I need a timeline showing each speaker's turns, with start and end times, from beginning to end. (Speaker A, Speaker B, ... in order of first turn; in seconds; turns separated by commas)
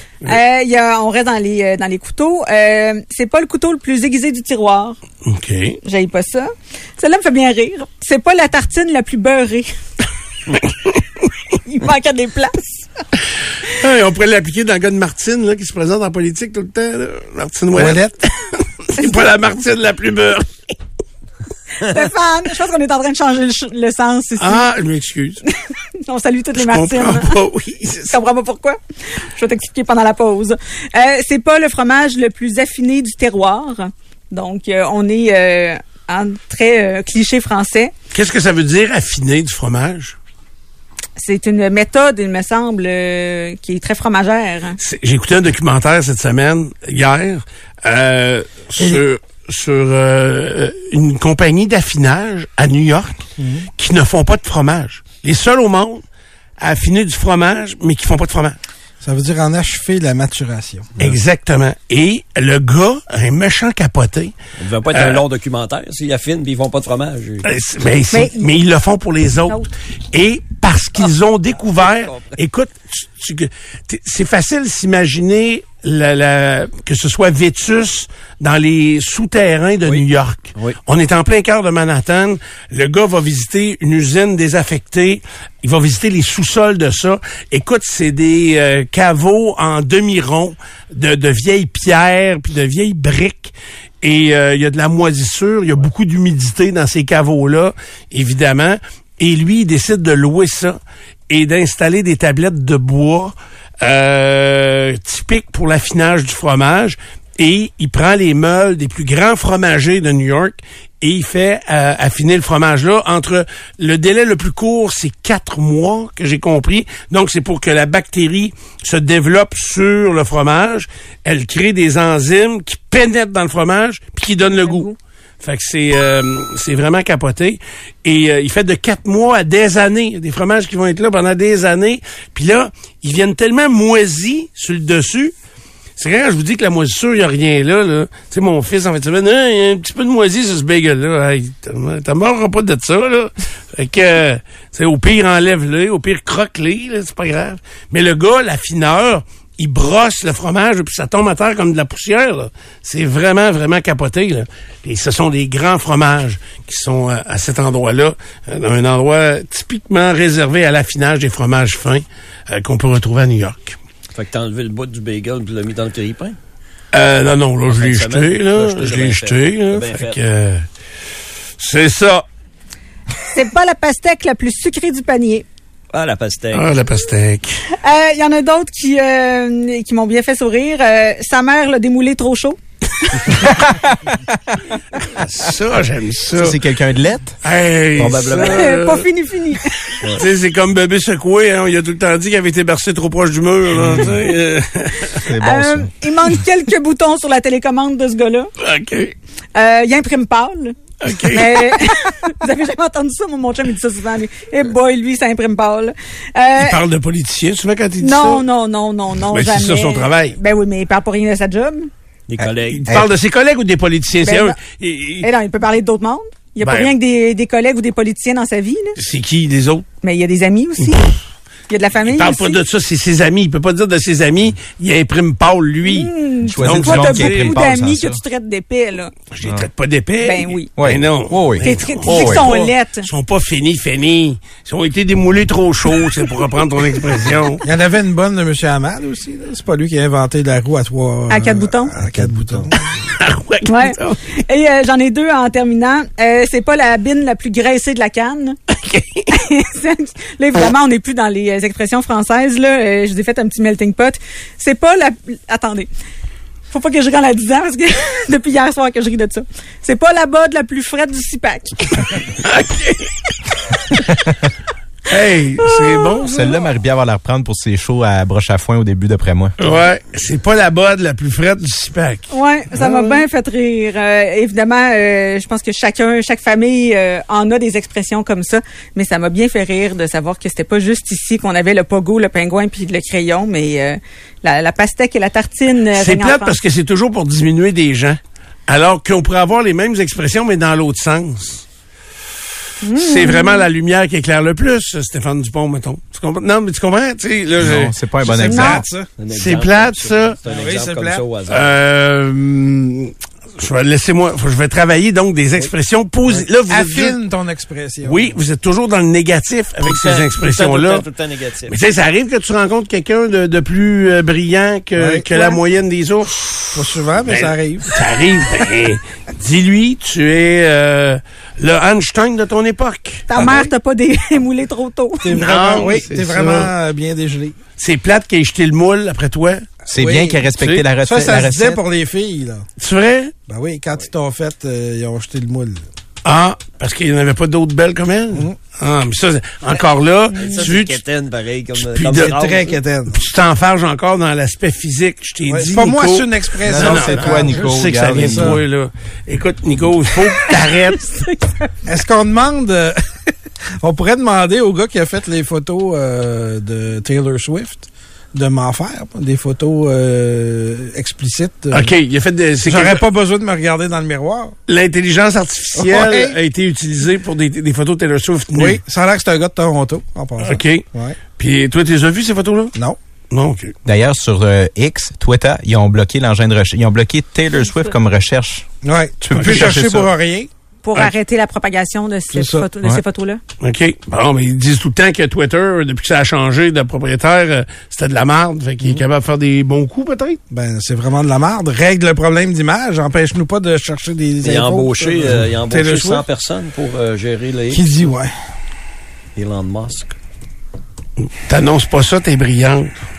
Speaker A: 0.2-5.0, Speaker B: 5.3-5.8, Speaker A: 5.8-9.7, Speaker A: 11.7-12.9, Speaker B: 13.7-20.7, Speaker C: 17.7-18.1, Speaker A: 21.8-24.7, Speaker B: 24.4-25.4, Speaker A: 25.4-27.4, Speaker B: 26.6-28.2, Speaker A: 28.1-28.8, Speaker A: 29.4-37.9, Speaker B: 38.1-40.2, Speaker A: 41.2-44.8, Speaker B: 44.8-53.2, Speaker C: 53.4-53.7, Speaker B: 53.8-56.0, Speaker B: 56.6-58.6, Speaker C: 59.0-60.9, Speaker B: 61.0-64.3, Speaker D: 64.6-67.5, Speaker B: 64.9-65.2, Speaker B: 67.4-100.8, Speaker A: 68.1-68.5, Speaker D: 71.8-72.3, Speaker B: 101.3-124.9, Speaker A: 124.4-125.0, Speaker B: 125.4-135.3, Speaker B: 136.0-163.8, Speaker D: 164.1-166.4, Speaker B: 166.9-170.7, Speaker D: 167.7-170.2, Speaker B: 171.6-172.2, Speaker A: 173.3-175.4, Speaker D: 175.9-176.7, Speaker B: 176.5-177.6, Speaker A: 177.8-183.3, Speaker E: 183.4-184.2, Speaker B: 185.2-186.6, Speaker E: 186.3-187.3, Speaker B: 187.4-189.1, Speaker D: 188.0-188.7, Speaker A: 188.3-189.9, Speaker B: 190.1-195.2, Speaker E: 193.8-194.1, Speaker E: 195.3-195.9, Speaker A: 195.4-198.5, Speaker B: 198.6-199.2, Speaker A: 199.6-206.8, Speaker B: 201.0-201.8, Speaker B: 206.6-208.5, Speaker A: 208.0-211.9, Speaker B: 209.3-210.4, Speaker D: 212.3-212.9, Speaker E: 212.4-213.1, Speaker B: 212.7-215.3, Speaker A: 214.2-214.6, Speaker A: 215.2-219.0, Speaker B: 216.6-216.9, Speaker B: 219.0-219.9, Speaker A: 220.0-221.2, Speaker A: 221.7-222.6, Speaker B: 222.1-227.6, Speaker A: 225.8-229.1, Speaker E: 226.4-228.2, Speaker B: 229.3-237.6, Speaker A: 230.2-230.7, Speaker E: 230.8-232.5, Speaker A: 231.6-233.1, Speaker C: 237.6-242.8, Speaker A: 241.3-241.9, Speaker B: 243.1-244.2, Speaker A: 243.7-248.6, Speaker B: 248.7-249.3, Speaker A: 249.3-255.9, Speaker A: 256.7-262.1, Speaker B: 262.4-263.1, Speaker B: 265.1-266.5, Speaker A: 265.8-266.2, Speaker E: 266.3-269.7, Speaker B: 269.6-273.2, Speaker A: 272.3-286.6, Speaker B: 285.9-291.6, Speaker A: 292.8-293.7, Speaker B: 292.9-297.9, Speaker E: 297.6-298.9, Speaker C: 298.2-299.1, Speaker A: 298.5-298.8, Speaker D: 299.2-301.7, Speaker B: 299.3-300.4, Speaker C: 300.4-301.2, Speaker B: 301.5-307.2, Speaker C: 306.3-308.4, Speaker B: 308.0-311.0, Speaker D: 309.9-311.8, Speaker B: 311.7-323.7, Speaker C: 314.9-315.3, Speaker C: 316.7-318.0, Speaker A: 323.3-325.5, Speaker C: 325.2-327.6, Speaker B: 325.3-326.7, Speaker B: 327.8-329.6, Speaker E: 329.9-331.8, Speaker C: 329.9-332.7, Speaker B: 330.6-330.9, Speaker B: 332.8-333.3, Speaker C: 333.5-335.8, Speaker B: 336.2-341.0, Speaker D: 340.3-342.8, Speaker B: 341.8-342.3, Speaker C: 342.1-343.2, Speaker B: 343.1-351.1, Speaker C: 345.5-348.6, Speaker E: 346.6-348.6, Speaker A: 350.3-351.7, Speaker C: 351.9-353.3, Speaker C: 353.8-361.9, Speaker B: 361.7-363.0, Speaker C: 362.7-364.6, Speaker B: 364.7-368.8, Speaker C: 365.8-366.4, Speaker C: 368.5-371.2, Speaker B: 370.4-370.9, Speaker B: 371.4-372.8, Speaker B: 373.3-373.8, Speaker E: 373.9-378.7, Speaker C: 378.8-380.5, Speaker E: 379.2-380.1, Speaker A: 380.8-383.4, Speaker C: 382.3-382.7, Speaker B: 383.6-390.4, Speaker C: 390.5-396.2, Speaker D: 394.4-397.8, Speaker C: 397.7-398.3, Speaker D: 399.4-400.1, Speaker B: 401.4-403.0